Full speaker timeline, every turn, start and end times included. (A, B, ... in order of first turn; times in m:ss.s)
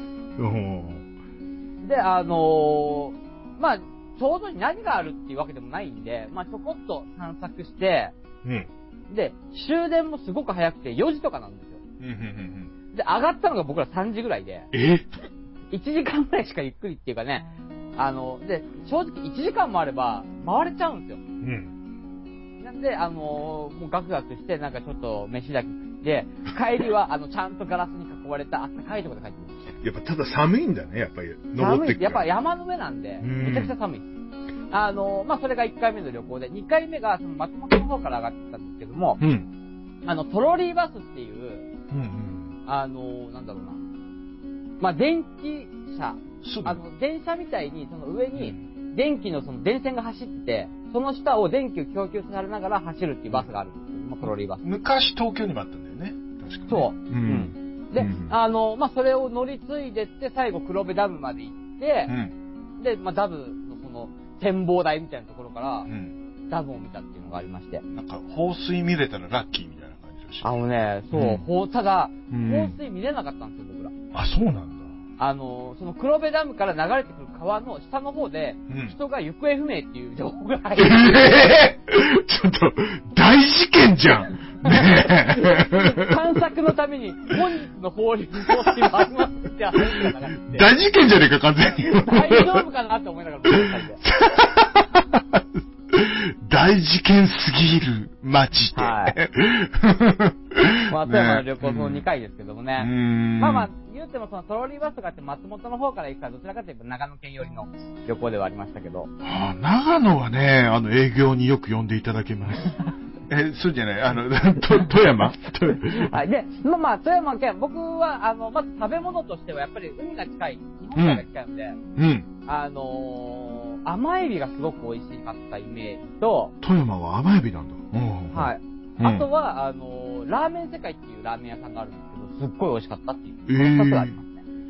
0:00.4-0:01.0 A
0:01.8-0:08.1 B
0:08.4-0:08.7 A
0:09.1-0:11.8 B
0:12.0-0:12.7 A
0:12.9-0:14.7 B
0:14.7-0:15.1 A
0:15.7-0:21.2 B
0:21.4-0:21.7 A
0:22.6-0:29.6 B
0:29.8-0:32.2 A
0:31.6-0:34.1 B
0:33.2-0:33.7 A
0:34.7-0:39.2 B
0:39.2-0:39.5 A
0:40.0-0:41.7 B
0:41.9-0:42.5 A
0:42.6-0:43.8 B
0:44.8-0:54.6 B
0:46.4-0:46.8 A
0:54.2-0:58.3 A
0:56.7-1:02.1 B
1:02.1-1:02.3 A
1:02.8-1:05.9 B
1:05.9-1:06.1 A
1:06.5-1:07.8 B
1:07.9-1:10.5 A
1:10.4-1:13.9 B
1:11.1-1:11.5 A
1:12.3-1:12.8 A
1:14.1-1:14.9 A
1:15.2-1:21.6 B
1:18.7-1:19.0 A
1:20.8-1:26.2 A
1:24.6-1:30.7 B
1:29.9-1:32.6 A
1:32.1-1:34.0 B
1:33.5-1:42.1 A
1:38.8-1:39.2 B
1:40.9-1:49.1 B
1:42.8-1:43.7 A
1:49.2-1:52.8 A
1:53.3-1:56.1 A
1:55.7-2:01.8 B
2:01.0-2:01.2 A
2:02.0-2:02.3 A
2:02.5-2:06.5 B
2:06.6-2:09.3 A
2:08.3-2:14.4 B
2:13.5-2:14.1 A